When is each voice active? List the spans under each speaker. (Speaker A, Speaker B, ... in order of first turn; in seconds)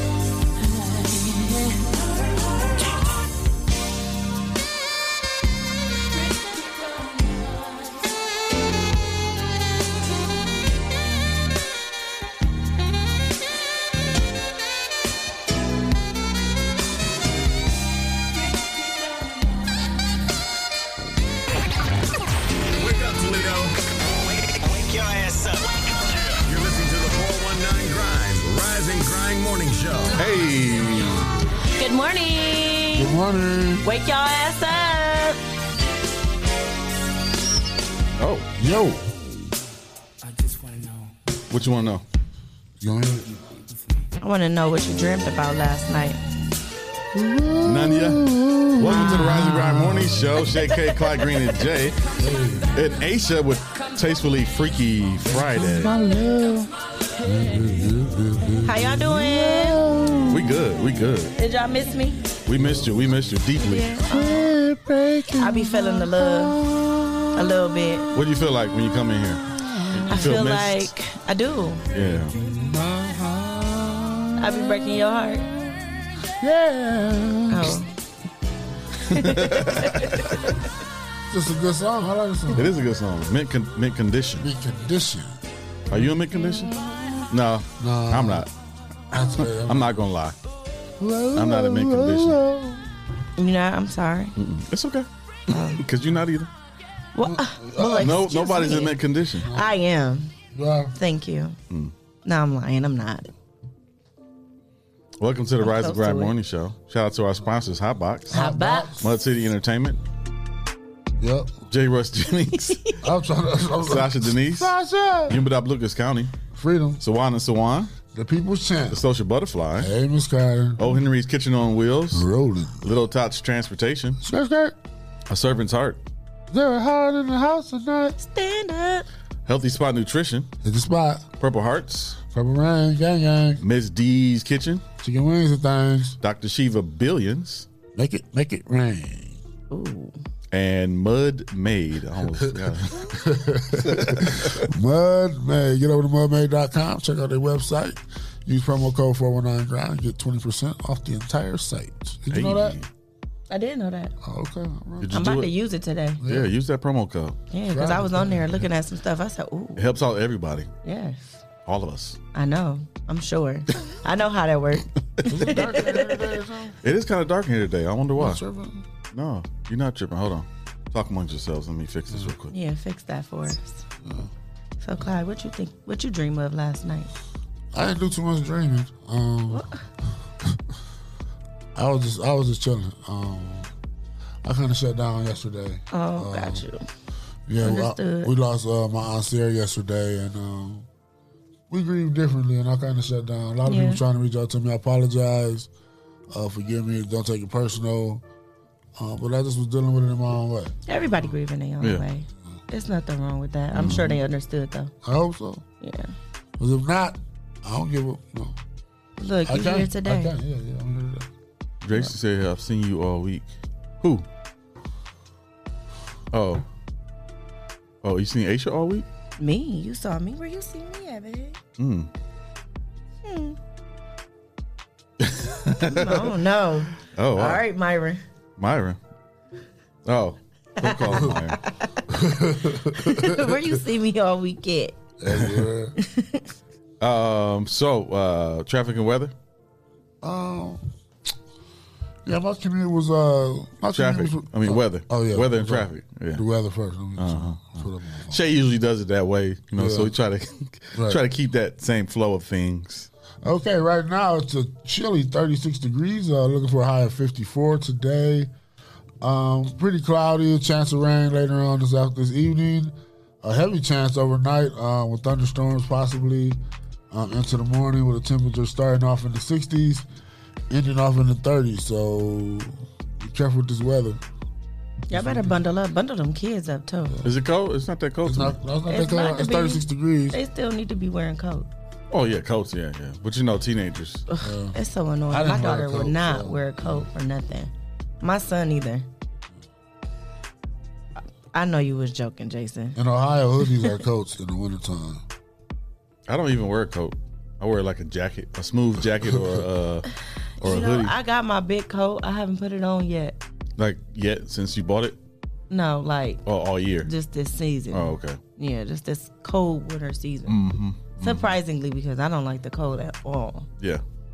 Speaker A: 0.6-2.9, 6.2-8.0, 18.6-19.4, 40.4-40.9, 52.2-52.5, 57.2-58.0
Speaker B: 22.8-30.2
Speaker C: 30.1-31.3, 38.2-38.5, 41.5-42.0, 47.6-48.2, 48.8-52.0, 52.7-56.0, 60.3-61.3, 62.5-64.0, 68.1-70.9, 71.9-72.3, 79.1-80.0, 82.5-84.5, 85.9-86.8, 87.3-88.5, 89.6-90.3, 91.3-92.4, 94.4-96.5, 98.0-99.5, 105.2-108.5, 109.0-110.0, 111.7-112.8, 113.8-114.7, 115.3-116.3, 117.0-117.9, 118.9-119.9, 120.8-122.2, 122.8-124.2, 125.3-126.0, 129.5-130.5, 131.4-132.2, 133.6-134.8, 136.2-137.7, 140.5-143.1, 143.8-144.7, 152.3-152.9, 155.0-155.5, 156.3-157.4, 159.8-160.7, 161.7-162.2, 166.8-168.4, 169.1-172.5, 203.7-204.2, 211.8-213.5, 216.3-216.6, 218.0-219.1, 221.8-222.1, 225.2-226.3, 227.1-227.7, 228.6-229.0, 230.1-231.6, 237.0-239.3, 243.9-246.4, 247.2-253.1, 277.2-278.6, 282.1-284.2, 296.3-300.1, 300.6-301.1, 303.8-305.2, 306.5-307.1, 307.9-308.4, 310.5-311.5
Speaker D: 31.8-33.1, 33.8-35.4, 44.2-46.2, 58.6-59.8, 61.4-62.3, 63.6-64.5, 65.4-66.6, 67.3-68.1, 70.1-71.8, 74.4-75.5, 77.5-77.9, 79.1-80.5, 93.4-94.3, 95.5-95.8, 97.2-99.0, 99.5-100.3, 101.0-101.6, 102.2-103.3, 105.6-106.3, 108.3-108.9, 112.5-113.0, 128.2-129.1, 139.7-140.2, 153.5-154.1, 155.1-156.2, 157.5-159.9, 160.8-161.4, 162.3-166.2, 172.5-173.8, 174.8-177.1, 179.5-179.8, 185.9-186.9, 187.6-188.3, 193.7-194.0, 200.9-204.9, 205.8-206.1, 209.2-210.3, 219.4-221.6, 223.2-223.6, 225.8-228.2, 230.8-232.0, 233.0-235.0, 236.0-236.4, 275.1-277.2, 278.9-281.7, 284.3-289.1, 291.5-293.0, 300.6-303.4, 305.7-306.4, 307.0-310.6, 311.2-313.7
Speaker E: 32.9-33.9, 38.6-39.0, 42.8-43.3, 47.1-50.5, 52.2-52.7, 55.3-56.7, 57.2-60.5, 62.5-63.2, 64.1-67.5, 69.7-70.1, 72.4-74.8, 76.3-77.8, 81.3-82.8, 84.4-85.4, 87.8-88.5, 89.1-90.0, 91.0-92.9, 97.2-98.2, 99.4-99.7, 100.5-101.0, 108.3-109.1, 111.2-111.6, 113.0-115.4, 116.5-117.0, 118.1-119.0, 119.8-121.0, 122.1-122.9, 124.2-124.8, 126.5-128.2, 130.6-131.3, 132.2-133.6, 135.0-136.2, 137.9-139.4, 142.4-152.8, 154.2-155.2, 156.2-156.5, 157.7-158.6, 165.3-166.8, 168.2-168.9, 174.0-174.3, 177.7-179.7, 181.8-183.7, 184.4-186.6, 187.5-190.9, 191.7-195.7, 196.3-198.2, 199.0-200.8, 205.0-205.6, 206.6-208.6, 209.4-211.3, 232.1-233.6, 235.2-235.9, 240.2-240.8, 242.2-248.4, 249.8-250.1, 250.9-251.2, 253.4-258.5, 259.2-266.6, 267.1-270.1, 270.7-274.2, 275.1-275.6, 278.2-280.4, 284.4-284.8, 285.3-287.1, 292.9-295.2